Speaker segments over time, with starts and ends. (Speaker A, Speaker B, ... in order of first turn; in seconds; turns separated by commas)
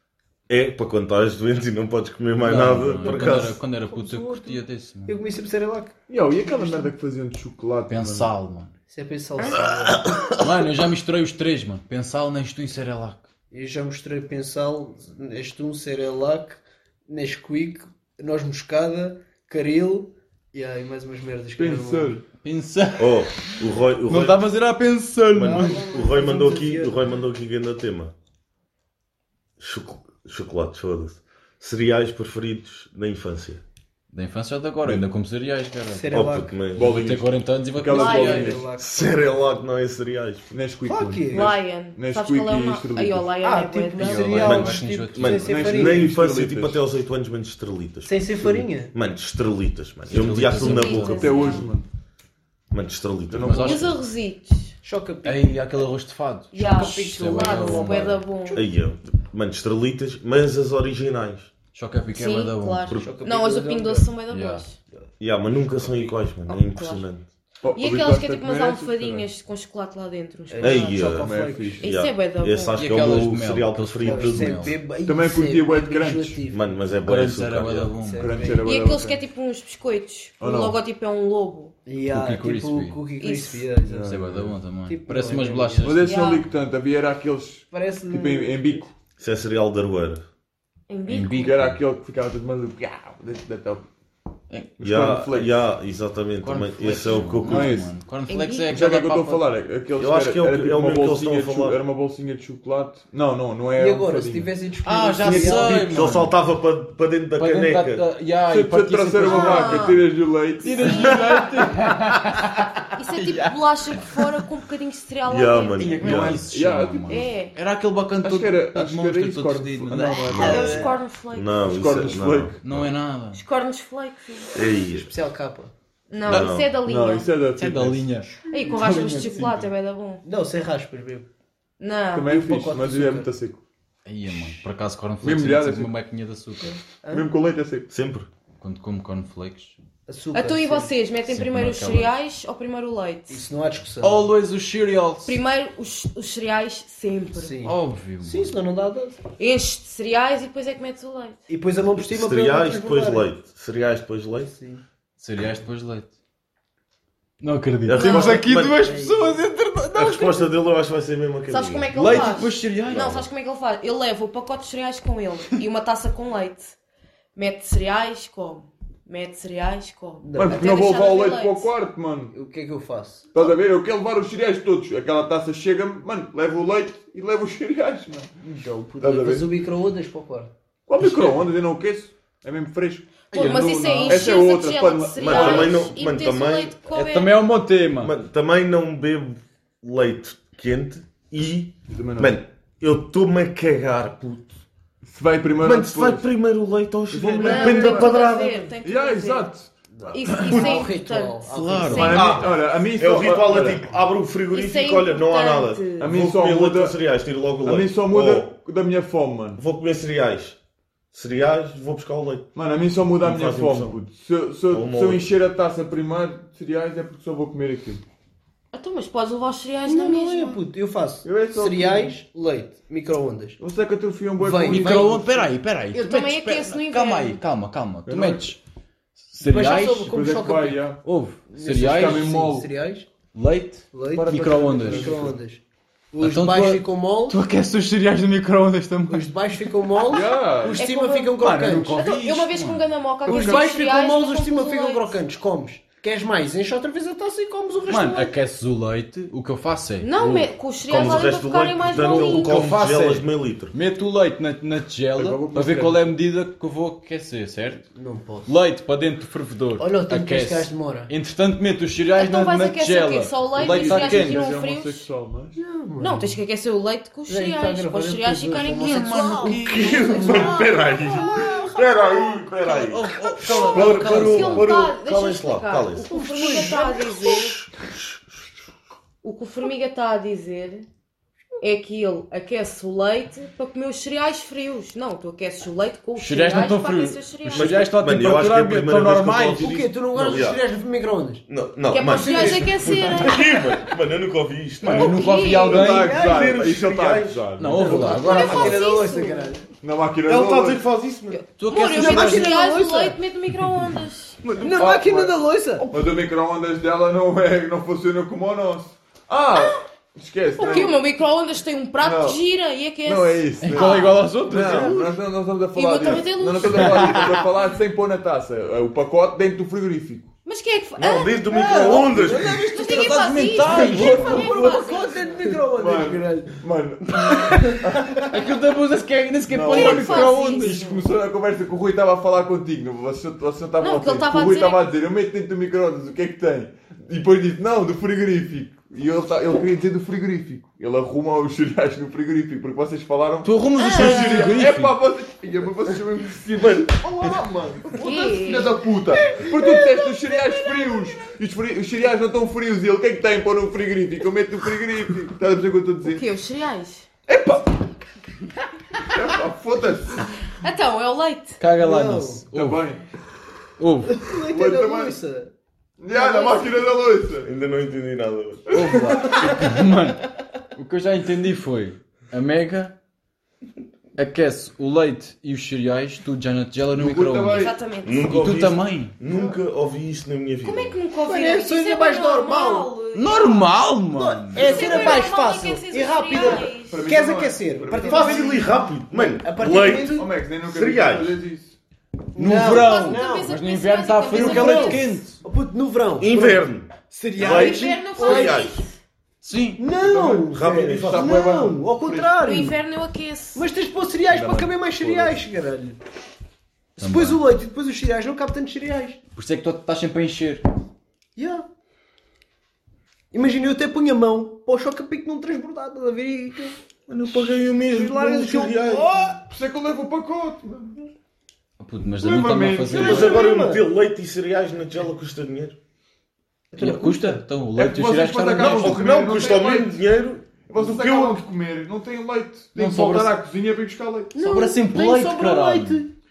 Speaker A: 0.5-3.6, Speaker B: 2.4-5.2, Speaker C: 3.0-6.9, Speaker D: 6.1-8.3, Speaker B: 7.9-8.7, Speaker C: 8.9-10.3, Speaker B: 10.3-13.2, Speaker C: 13.5-22.1, Speaker D: 21.6-22.2, Speaker B: 22.4-25.9, Speaker A: 23.0-24.4, Speaker A: 25.3-28.1, Speaker C: 25.4-27.0, Speaker A: 29.6-33.6, Speaker B: 34.1-38.6, Speaker C: 35.9-36.6, Speaker A: 36.1-37.1, Speaker D: 36.7-38.7, Speaker C: 37.9-39.1, Speaker E: 37.9-38.5, Speaker A: 38.8-40.5, Speaker D: 40.5-43.3, Speaker C: 40.8-41.5, Speaker E: 41.3-44.5, Speaker C: 43.4-46.1, Speaker B: 44.0-45.7, Speaker A: 44.4-51.5, Speaker D: 45.4-46.8, Speaker C: 48.0-48.9, Speaker B: 50.1-51.7, Speaker E: 50.5-51.7, Speaker D: 51.0-51.9, Speaker A: 52.7-53.9, Speaker D: 53.3-53.9, Speaker B: 53.4-54.0, Speaker E: 53.6-54.7, Speaker C: 54.8-55.6, Speaker B: 55.2-58.2, Speaker E: 56.5-58.6, Speaker C: 56.6-58.7, Speaker A: 58.5-61.5, Speaker B: 61.7-62.9, Speaker E: 62.1-64.8, Speaker A: 62.9-63.1, Speaker C: 63.0-64.1, Speaker B: 64.3-64.6, Speaker A: 65.2-67.2, Speaker E: 66.5-67.0, Speaker D: 67.6-69.2, Speaker E: 67.7-71.0, Speaker C: 70.5-71.8, Speaker A: 70.6-74.8, Speaker D: 71.2-71.8, Speaker E: 71.8-72.8, Speaker B: 72.8-74.8, Speaker C: 74.0-76.8, Speaker D: 75.0-76.4, Speaker A: 76.5-77.9, Speaker B: 77.0-78.5, Speaker C: 78.0-78.7, Speaker D: 78.2-79.2, Speaker E: 78.6-81.7, Speaker D: 80.4-80.8, Speaker C: 81.8-84.2, Speaker B: 82.1-83.0, Speaker E: 83.2-83.7, Speaker D: 83.8-84.5, Speaker B: 84.0-86.3, Speaker C: 84.8-86.1, Speaker D: 85.8-88.9, Speaker E: 86.0-86.5, Speaker C: 87.7-88.8, Speaker A: 89.2-90.2, Speaker E: 90.9-91.5, Speaker B: 91.1-91.8, Speaker D: 91.3-93.9, Speaker B: 94.5-94.7, Speaker D: 94.8-95.5, Speaker A: 94.8-97.8, Speaker B: 96.4-99.5, Speaker D: 97.4-97.9, Speaker E: 98.3-98.7, Speaker D: 98.7-104.5, Speaker A: 100.0-101.8, Speaker C: 103.7-106.1, Speaker B: 104.8-106.3, Speaker D: 105.2-106.0, Speaker A: 105.9-108.0, Speaker B: 107.3-110.0, Speaker D: 108.5-111.7, Speaker E: 109.2-110.0, Speaker B: 110.6-114.3, Speaker E: 112.9-116.0, Speaker A: 115.2-116.4, Speaker B: 115.8-120.9, Speaker D: 116.0-117.2, Speaker E: 117.1-117.5, Speaker D: 118.2-120.9, Speaker C: 120.0-121.0, Speaker E: 120.3-121.5, Speaker A: 121.3-122.9, Speaker D: 121.6-122.6, Speaker B: 122.6-123.4, Speaker E: 123.3-124.5, Speaker A: 124.5-125.1, Speaker C: 124.9-125.7, Speaker E: 126.1-127.3, Speaker A: 126.3-126.7, Speaker D: 126.8-128.1, Speaker B: 127.6-129.6, Speaker E: 128.5-130.2, Speaker C: 130.2-131.3, Speaker E: 131.8-132.3, Speaker D: 132.1-133.6, Speaker C: 132.3-133.3, Speaker B: 134.0-136.8, Speaker D: 135.2-135.9, Speaker C: 137.0-137.3, Speaker D: 137.1-137.9, Speaker A: 137.9-138.3, Speaker B: 138.6-139.8, Speaker C: 140.1-140.9, Speaker E: 140.3-143.4, Speaker B: 141.3-142.1, Speaker C: 143.3-144.3, Speaker B: 144.0-145.4, Speaker E: 145.2-147.6, Speaker C: 147.3-149.2, Speaker B: 147.6-148.6, Speaker E: 149.4-151.4, Speaker C: 151.5-153.3, Speaker A: 151.9-154.5, Speaker C: 154.5-154.8, Speaker B: 155.2-156.1, Speaker B: 157.4-160.5, Speaker A: 157.8-158.9, Speaker E: 157.9-158.4, Speaker C: 158.6-159.4, Speaker A: 159.9-163.3, Speaker E: 161.5-166.7, Speaker B: 161.9-163.1, Speaker E: 167.3-171.7, Speaker C: 170.2-170.6, Speaker D: 170.3-172.3, Speaker C: 172.3-173.4, Speaker D: 173.3-178.3, Speaker C: 178.4-180.5, Speaker D: 179.0-179.5, Speaker D: 180.9-185.8, Speaker B: 181.0-181.3, Speaker E: 183.3-187.4, Speaker B: 183.3-184.3, Speaker A: 185.2-186.7, Speaker B: 186.9-188.1, Speaker A: 188.0-194.5, Speaker D: 191.9-192.4, Speaker D: 195.0-196.3, Speaker A: 195.6-198.7, Speaker D: 197.1-198.1, Speaker E: 197.4-199.5, Speaker D: 198.8-199.7, Speaker C: 199.9-202.6, Speaker E: 200.1-202.5, Speaker D: 200.3-200.6, Speaker B: 201.5-202.5, Speaker D: 201.9-203.9, Speaker A: 202.9-208.5, Speaker E: 204.5-206.1, Speaker D: 206.0-206.9, Speaker D: 207.6-209.6, Speaker A: 209.6-210.6, Speaker A: 211.1-212.5, Speaker D: 212.5-218.0, Speaker A: 213.2-213.9, Speaker A: 214.7-215.3, Speaker E: 218.7-220.6, Speaker C: 219.8-223.6, Speaker D: 221.2-222.1, Speaker D: 223.6-225.5, Speaker C: 224.3-225.2, Speaker B: 224.6-228.6, Speaker E: 225.9-227.4, Speaker D: 228.1-228.5, Speaker B: 229.3-230.2, Speaker C: 229.4-230.8, Speaker D: 230.1-231.0, Speaker B: 231.0-232.5, Speaker C: 231.5-233.1, Speaker D: 231.7-232.7, Speaker B: 233.3-235.3, Speaker C: 233.9-235.6, Speaker D: 234.1-235.4, Speaker C: 236.1-237.4, Speaker B: 236.2-239.3, Speaker C: 239.1-242.0, Speaker D: 240.1-240.8, Speaker E: 240.8-241.4, Speaker B: 241.4-242.8, Speaker E: 241.9-245.1, Speaker C: 243.2-248.3, Speaker B: 247.9-251.3, Speaker E: 250.0-252.8, Speaker A: 250.9-253.7, Speaker B: 251.9-257.9, Speaker D: 255.2-256.1, Speaker C: 257.9-258.5, Speaker B: 258.4-264.5, Speaker C: 259.8-261.1, Speaker E: 262.1-265.1, Speaker D: 263.5-265.6, Speaker C: 265.6-266.4, Speaker E: 266.0-270.6, Speaker C: 267.3-272.4, Speaker B: 268.7-270.4, Speaker A: 269.7-278.1, Speaker D: 270.2-271.3, Speaker B: 272.6-274.7, Speaker E: 273.2-277.7, Speaker C: 276.1-277.4, Speaker E: 279.2-280.9, Speaker E: 281.6-287.9, Speaker B: 286.2-289.8, Speaker A: 287.5-290.6, Speaker C: 289.6-291.4, Speaker A: 291.5-295.2, Speaker E: 291.9-293.7, Speaker C: 292.1-293.6, Speaker B: 294.8-296.3, Speaker E: 294.9-295.9, Speaker D: 295.4-298.3, Speaker C: 295.4-296.6, Speaker A: 296.1-297.4, Speaker B: 297.6-298.9, Speaker C: 297.7-299.7, Speaker E: 298.1-299.6, Speaker D: 299.8-300.8, Speaker A: 300.2-301.4, Speaker E: 301.3-304.4, Speaker B: 301.6-302.7, Speaker C: 301.7-303.2, Speaker D: 304.4-311.0, Speaker C: 304.6-305.9, Speaker E: 310.6-314.1, Speaker C: 310.6-310.9, Speaker D: 312.0-312.4, Speaker D: 313.0-320.3, Speaker B: 313.6-314.9, Speaker A: 314.5-315.0, Speaker C: 314.5-315.1, Speaker E: 315.7-317.4, Speaker B: 316.7-317.4, Speaker E: 320.4-322.0, Speaker A: 321.0-322.9, Speaker B: 321.5-324.6, Speaker C: 321.6-326.6, Speaker E: 322.6-325.4, Speaker D: 323.9-324.3, Speaker D: 325.6-328.3, Speaker C: 327.2-327.8, Speaker B: 328.2-331.0, Speaker D: 329.5-356.2, Speaker E: 329.7-331.0, Speaker E: 333.8-334.9, Speaker B: 343.4-344.9, Speaker E: 343.8-344.5, Speaker A: 346.6-347.3, Speaker E: 348.0-348.8, Speaker C: 349.2-351.2, Speaker E: 356.0-357.1, Speaker D: 357.3-357.8, Speaker D: 359.0-360.3, Speaker E: 360.6-361.6, Speaker B: 361.6-362.9, Speaker C: 361.8-362.4, Speaker D: 362.5-363.0, Speaker B: 363.8-364.2, Speaker C: 364.1-365.5, Speaker D: 364.4-365.2, Speaker D: 366.0-367.5, Speaker C: 366.1-366.6, Speaker A: 367.4-369.3, Speaker B: 368.7-372.9, Speaker B: 374.1-379.2, Speaker D: 376.9-377.7, Speaker E: 377.5-378.3, Speaker A: 378.0-381.0, Speaker E: 380.6-383.7, Speaker C: 381.2-382.9, Speaker B: 383.1-385.2, Speaker C: 384.1-390.3, Speaker E: 384.5-387.0, Speaker D: 386.4-388.7, Speaker A: 388.0-391.4, Speaker D: 389.6-391.8, Speaker C: 392.3-393.5, Speaker B: 392.4-395.4, Speaker E: 392.6-395.0, Speaker C: 394.3-398.7, Speaker A: 396.2-398.8, Speaker E: 397.4-398.9, Speaker B: 399.4-399.8, Speaker C: 399.8-402.8, Speaker D: 400.0-402.4, Speaker A: 400.2-401.4, Speaker E: 402.4-403.7, Speaker C: 403.5-406.0, Speaker D: 404.3-405.4, Speaker C: 407.0-409.2, Speaker B: 407.0-407.4, Speaker B: 409.3-410.6, Speaker C: 411.4-411.6, Speaker C: 413.3-419.4, Speaker A: 417.1-419.1, Speaker D: 419.4-421.1, Speaker B: 421.8-423.4, Speaker D: 422.2-423.4, Speaker C: 422.9-423.9, Speaker A: 423.0-425.8, Speaker C: 426.7-427.4, Speaker B: 426.8-429.0, Speaker D: 427.8-430.0, Speaker A: 428.6-431.4, Speaker D: 430.6-434.3, Speaker B: 432.8-433.3, Speaker C: 434.3-436.1, Speaker B: 434.4-436.0